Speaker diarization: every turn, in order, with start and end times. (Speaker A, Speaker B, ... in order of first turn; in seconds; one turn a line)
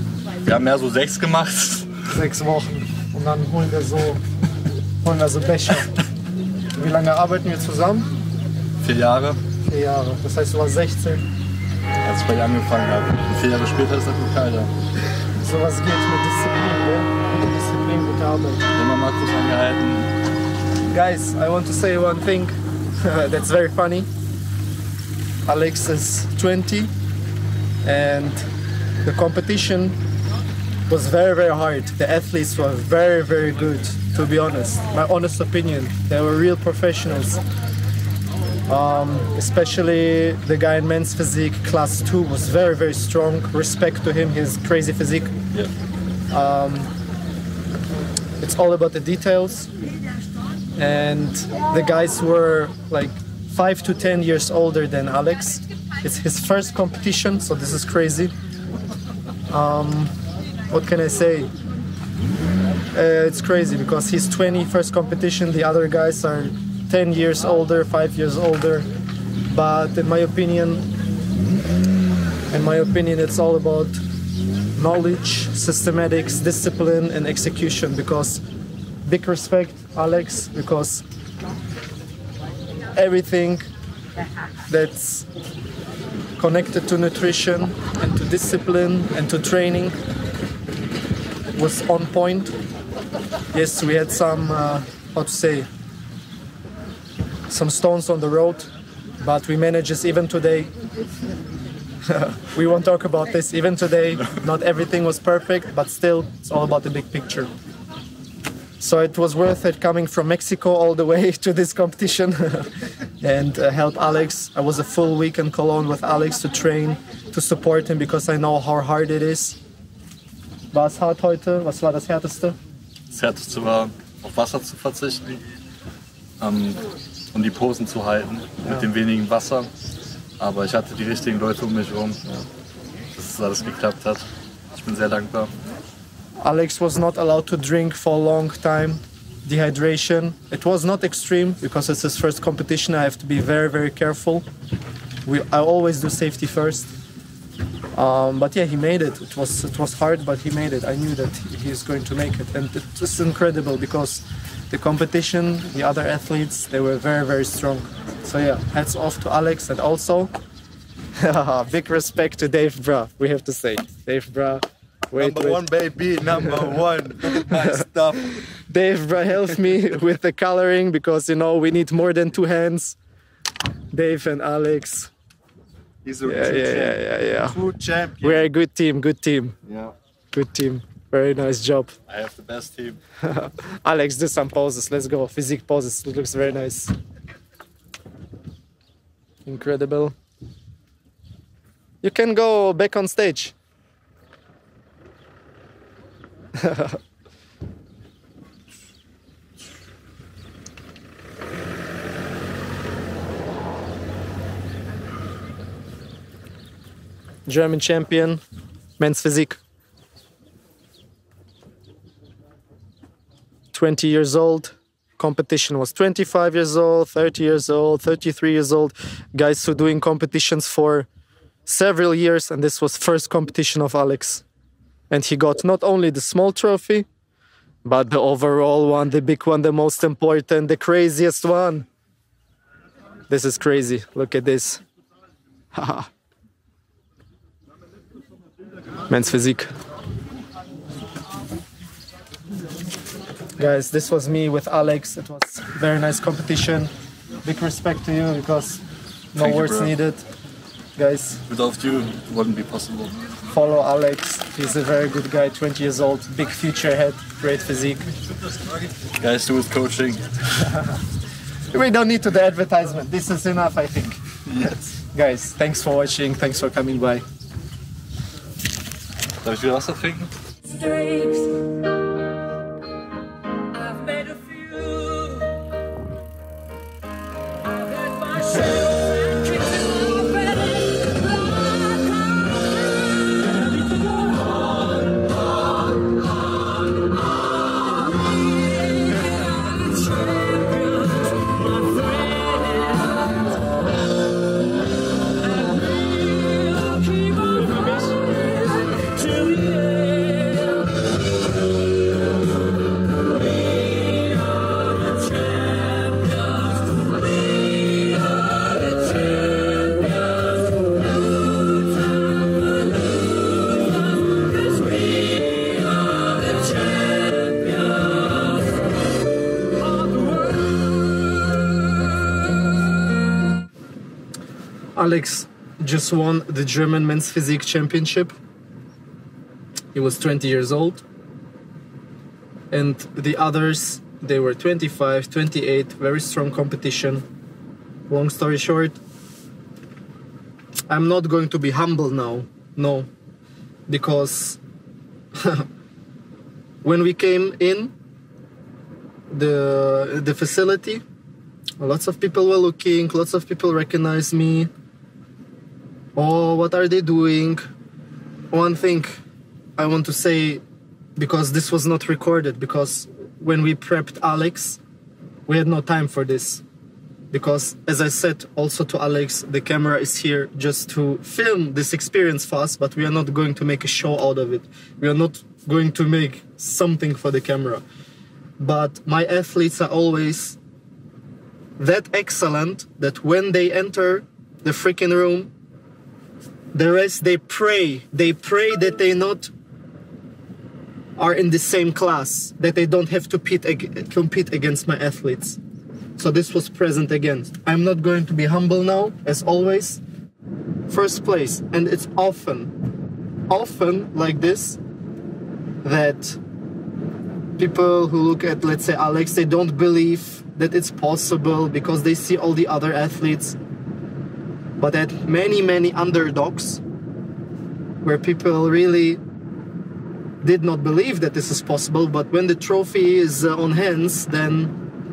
Speaker A: 0.4-1.9
Speaker B: 2.1-4.2
Speaker B: 5.0-6.0
Speaker B: 6.8-8.1
Speaker A: 8.8-9.4
Speaker B: 9.7-11.2
Speaker A: 12.0-14.7
Speaker B: 15.4-18.6
Speaker A: 18.7-20.1
Speaker B: 20.9-24.1
Speaker B: 25.4-26.9
Speaker B: 27.8-28.4
Speaker B: 29.0-30.0
Speaker B: 30.9-37.4
Speaker B: 38.7-45.3
Speaker B: 46.3-46.9
Speaker B: 48.4-49.7
Speaker B: 50.8-58.3
Speaker B: 59.5-60.1
Speaker B: 60.7-61.5
Speaker B: 62.9-68.9
Speaker B: 69.5-70.9
Speaker B: 72.5-74.0
Speaker B: 74.8-78.4
Speaker B: 79.0-81.0
Speaker B: 82.9-83.7
Speaker B: 84.7-85.2
Speaker B: 86.4-89.9
Speaker B: 91.5-92.5
Speaker B: 93.5-95.7
Speaker B: 97.5-98.7
Speaker B: 99.2-100.7
Speaker B: 102.1-107.5
Speaker B: 108.8-119.6
Speaker B: 120.7-122.5
Speaker A: 123.1-125.4
Speaker A: 126.4-126.8
Speaker A: 127.3-129.7
Speaker B: 128.6-128.9
Speaker A: 130.4-132.2
Speaker A: 133.1-135.5
Speaker B: 136.4-144.4
Speaker B: 145.2-146.9
Speaker B: 147.9-160.3
Speaker B: 161.2-165.7
Speaker C: 165.2-168.4
Speaker B: 166.4-166.8
Speaker B: 167.3-167.8
Speaker B: 168.6-173.0
Speaker B: 173.9-175.1
Speaker C: 176.0-178.4
Speaker B: 176.2-177.6
Speaker B: 178.2-179.5
Speaker B: 180.3-181.9
Speaker A: 182.1-183.0
Speaker B: 183.2-186.9
Speaker B: 189.4-190.1
Speaker B: 192.0-193.5
Speaker B: 207.5-208.4
Speaker B: 209.0-209.6
Speaker B: 213.7-221.1
Speaker B: 221.7-224.4
Speaker B: 225.1-227.1
Speaker B: 227.8-231.8
Speaker B: 233.3-234.8
Speaker B: 235.7-236.1
Speaker B: 239.1-239.7
Speaker B: 243.6-246.9
Speaker B: 247.4-248.8
Speaker B: 249.3-250.2
Speaker A: 249.3-249.9
Speaker B: 251.0-251.4
Speaker A: 251.5-253.1
Speaker B: 253.5-258.1
Speaker A: 259.2-260.2
Speaker B: 261.7-264.2
Speaker B: 265.1-267.2
Speaker A: 269.4-270.3
Speaker B: 324.9-328.3
Speaker B: 329.9-331.0
Speaker B: 332.7-337.2
Speaker B: 338.1-339.0
Speaker B: 340.9-343.1
Speaker B: 343.9-344.6
Speaker B: 345.3-345.6
Speaker B: 346.8-347.9
Speaker B: 349.3-351.0
Speaker B: 351.8-354.7
Speaker B: 356.1-357.6
Speaker B: 358.5-359.2
Speaker B: 359.8-360.6
Speaker B: 361.1-364.8
Speaker B: 365.5-366.6
Speaker B: 367.3-377.8
Speaker B: 378.6-380.6
Speaker B: 381.8-385.5
Speaker B: 386.7-389.5
Speaker B: 391.2-395.6
Speaker B: 396.2-400.0
Speaker B: 400.9-402.7
Speaker B: 403.5-404.8
Speaker B: 405.8-406.4
Speaker B: 407.6-413.6
Speaker B: 414.8-416.8
Speaker B: 418.0-419.2
Speaker B: 420.4-424.7